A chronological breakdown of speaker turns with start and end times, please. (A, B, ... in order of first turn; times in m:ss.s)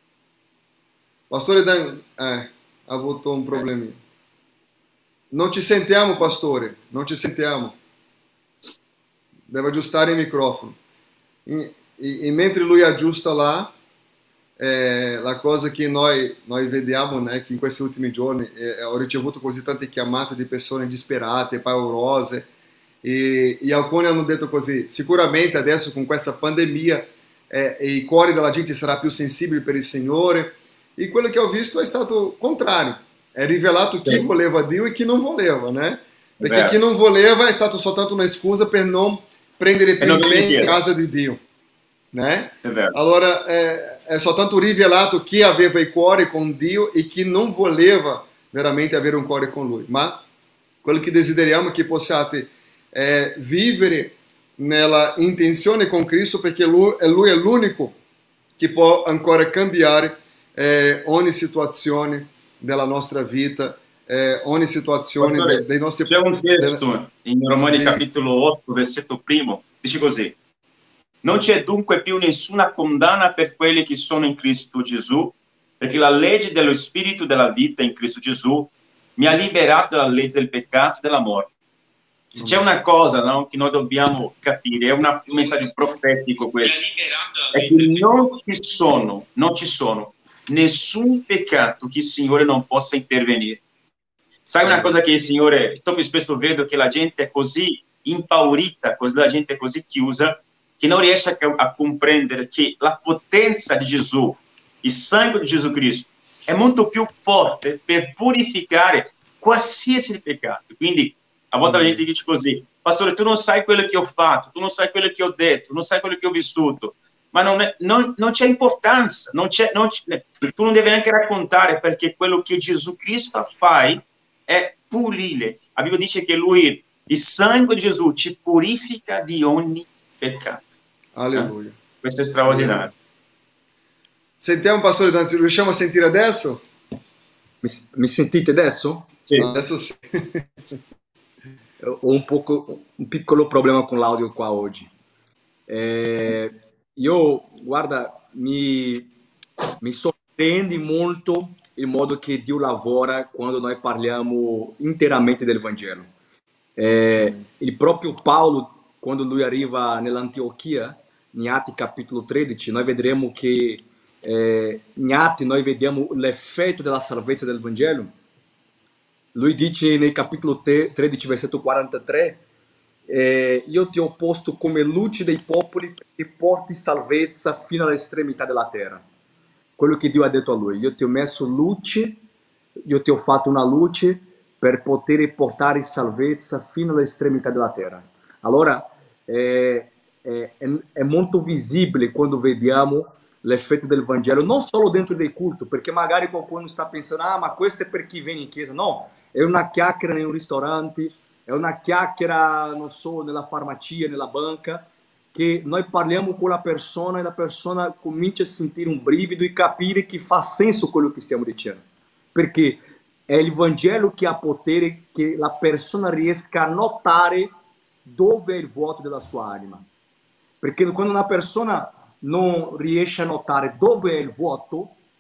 0:01.3-0:04.0 A
0:05.3-0:07.8 A
0:09.5-0:10.8 A
0:11.5-0:13.7 A
0:14.6-0:22.5 A
0:23.0-0:41.4 A
0:36.4-0:36.8 B
0:40.0-0:40.8 B
0:42.1-0:50.2 A
0:42.6-0:43.0 B
0:50.8-0:58.0 A
0:58.6-1:06.8 A
1:05.2-1:10.4 B
1:07.7-1:08.0 A
1:11.2-1:21.5 B
1:22.4-1:22.6 A
1:22.4-1:26.8 B
1:27.5-1:33.6 B
1:34.5-2:10.7 B
1:34.6-1:34.9 A
1:51.6-1:52.0 A
2:11.2-2:11.8 A
2:11.3-2:12.9 B
2:12.5-2:12.9 A
2:14.4-2:16.6 A
2:17.6-2:19.1 C
2:19.4-2:20.4 A
2:21.8-2:24.9 C
2:25.7-2:29.1 C
2:29.8-2:36.1 C
2:36.8-2:48.1 C
2:49.4-2:52.4 C
2:53.1-2:59.0 C
2:59.8-3:02.2 C
3:02.8-3:31.8 C
3:32.4-3:37.5 C
3:38.0-3:39.9 C
3:40.6-3:45.0 C